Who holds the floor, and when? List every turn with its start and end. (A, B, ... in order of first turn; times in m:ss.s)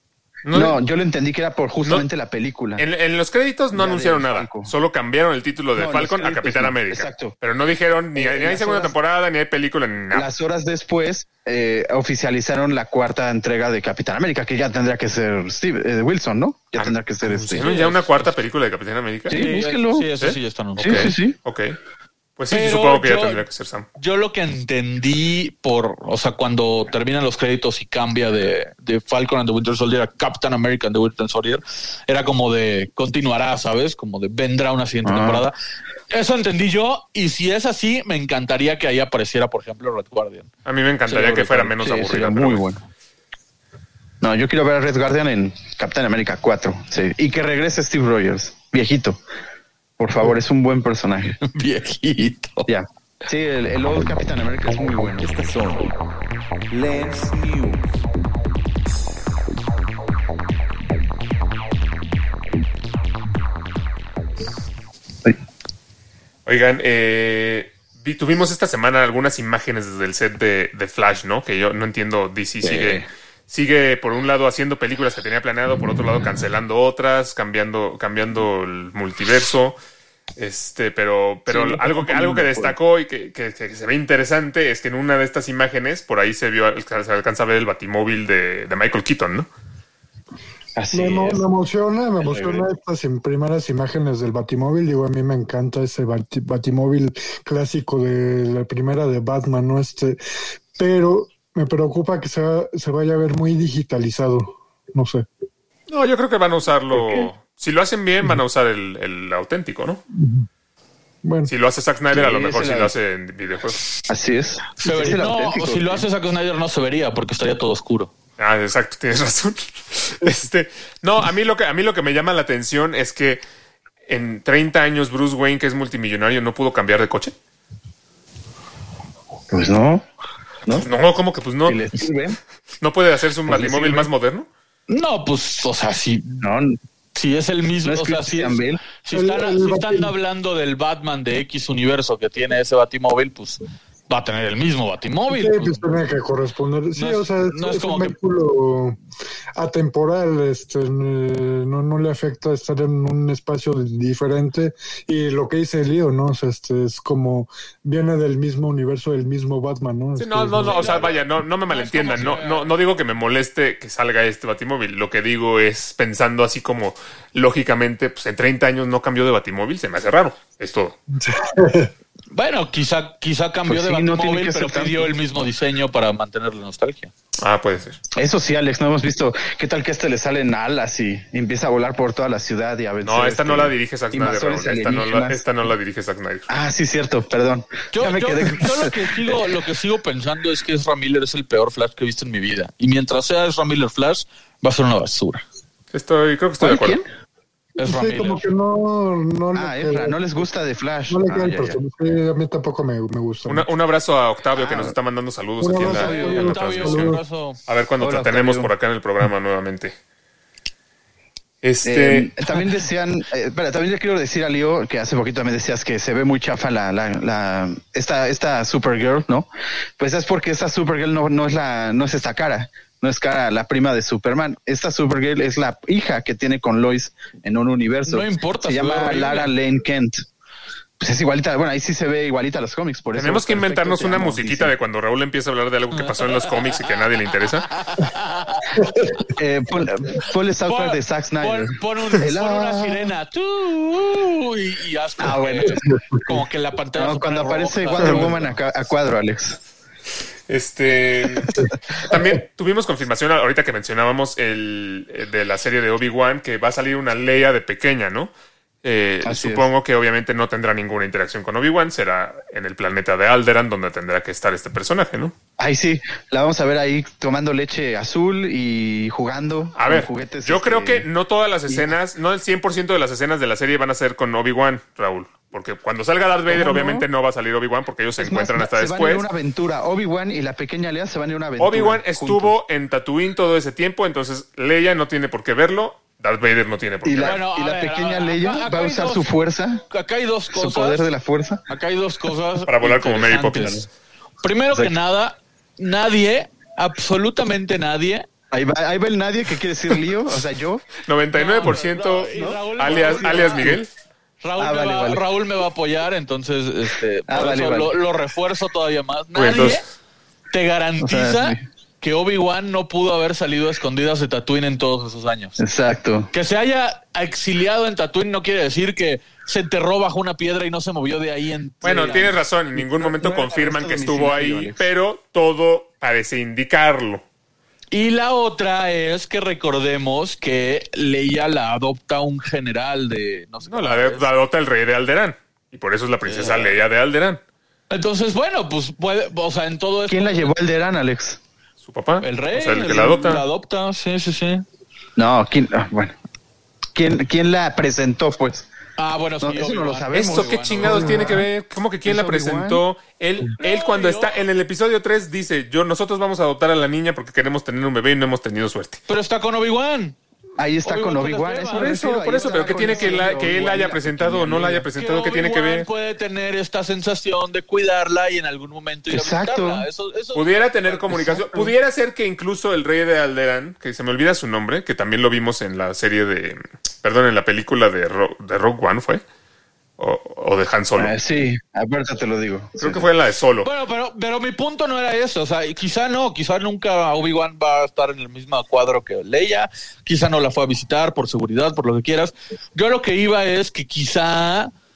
0:00.4-0:00.8 A
0:00.5-0:02.8 B
0:02.8-0:10.3 A
0:03.7-0:04.7 B
0:05.8-0:07.3 B
0:08.1-0:08.9 B
0:10.1-0:17.7 B
0:16.8-0:19.5 A
0:17.6-0:18.0 C
0:19.3-0:20.1 B
0:19.3-0:21.2 C
0:20.2-0:21.8 A
0:20.8-0:21.4 B
0:22.4-0:23.9 A
0:22.5-0:23.4 C
0:24.0-0:35.5 C
0:35.0-0:35.4 B
0:36.1-0:40.5 C
0:40.6-0:42.6 A
0:41.1-0:41.7 C
0:41.8-0:42.8 B
0:44.2-0:49.2 B
0:50.0-0:51.4 B
0:51.4-0:52.7 C
0:52.7-0:55.2 B
0:55.2-0:56.0 D
0:56.7-0:58.0 D
1:06.4-1:19.8 A
1:12.6-1:13.1 B
1:20.4-1:29.5 A
1:21.5-1:22.7 B
1:30.8-1:31.4 B
1:30.9-1:40.2 E
1:32.2-1:32.6 B
1:40.8-1:45.3 E
1:45.9-1:50.0 A
1:46.9-1:47.3 B
1:50.1-1:50.5 E
1:51.2-1:51.5 E
1:51.5-1:53.9 A
1:52.1-1:52.9 B
1:54.1-1:56.0 B
1:54.8-1:58.1 C
1:58.4-2:03.4 A
2:04.1-2:07.3 A
2:09.5-2:10.0 B
2:10.7-2:11.8 A
2:11.6-2:12.4 B
2:12.8-2:14.5 A
2:13.5-2:14.1 B
2:14.9-2:16.4 C
2:16.4-2:16.8 B
2:17.1-2:25.8 C
2:17.8-2:18.8 B
2:19.1-2:20.1 E
2:25.3-2:29.0 E
2:27.0-2:28.1 C
2:29.6-2:41.0 E
2:40.2-2:51.0 A
2:40.6-2:42.7 C
2:51.2-2:51.9 E
2:52.3-2:57.1 C
2:53.7-2:55.1 B
2:57.4-2:58.0 A
2:58.1-3:05.4 B
3:03.0-3:06.5 A
3:06.5-3:09.4 B
3:07.9-3:15.4 C
3:15.9-3:17.0 A
3:16.6-3:17.1 B
3:17.8-3:20.2 E
3:17.8-3:18.4 C
3:19.5-3:21.8 B
3:21.1-3:23.7 E
3:23.5-3:29.9 A
3:24.5-3:24.9 B
3:25.6-3:27.2 E
3:25.8-3:27.6 C
3:28.0-3:28.7 B
3:31.6-3:32.3 A
3:31.8-3:50.2 B
3:48.0-3:49.5 C
3:51.0-3:54.7 B
3:53.2-3:57.7 A
3:56.0-3:57.0 C
3:57.6-3:59.3 C
3:58.8-3:59.1 E
3:59.3-4:03.1 B
4:00.6-4:08.5 C
4:05.2-4:05.8 B
4:05.8-4:06.2 E
4:06.9-4:09.6 B
4:10.5-4:18.3 A
4:11.6-4:12.0 B
4:18.8-4:25.3 A
4:19.2-4:19.6 B
4:25.6-4:31.0 B
4:29.8-4:39.2 A
4:36.5-4:37.0 B
4:38.2-4:42.5 B
4:41.6-4:47.4 A
4:47.0-4:49.8 B
4:47.2-4:49.3 C
4:49.9-4:51.0 C
4:50.5-4:51.6 B
4:51.7-4:53.9 C
4:52.7-4:53.8 A
4:54.4-4:58.3 C
4:58.5-5:00.8 B
5:01.0-5:03.9 A
5:01.3-5:03.8 C
5:02.3-5:03.7 B
5:04.4-5:09.8 C
5:04.6-5:05.2 B
5:07.3-5:07.9 B
5:09.3-5:09.8 A
5:10.5-5:15.6 C
5:11.0-5:11.6 B
5:15.6-5:16.3 B
5:16.3-5:22.4 C
5:21.8-5:22.2 B
5:21.8-5:27.2 A
5:22.8-5:24.8 B
5:27.9-5:34.3 C
5:33.7-5:37.4 A
5:36.2-5:36.7 C
5:37.9-5:40.5 C
5:40.1-5:41.4 B
5:41.8-5:43.4 A
5:42.2-5:44.6 C
5:45.2-5:46.2 B
5:47.0-5:48.7 B
5:49.0-5:51.3 C
5:49.4-5:51.4 B
5:50.1-5:59.0 A
5:52.0-5:52.8 B
5:53.6-5:54.3 C
5:59.1-6:00.2 C
6:00.6-6:04.9 B
6:00.8-6:03.4 C
6:01.7-6:05.9 A
6:04.9-6:11.7 C
6:09.1-6:09.8 B
6:10.3-6:19.2 A
6:20.0-6:21.1 A
6:21.0-6:23.0 B
6:22.8-6:23.7 A
6:23.6-6:34.7 C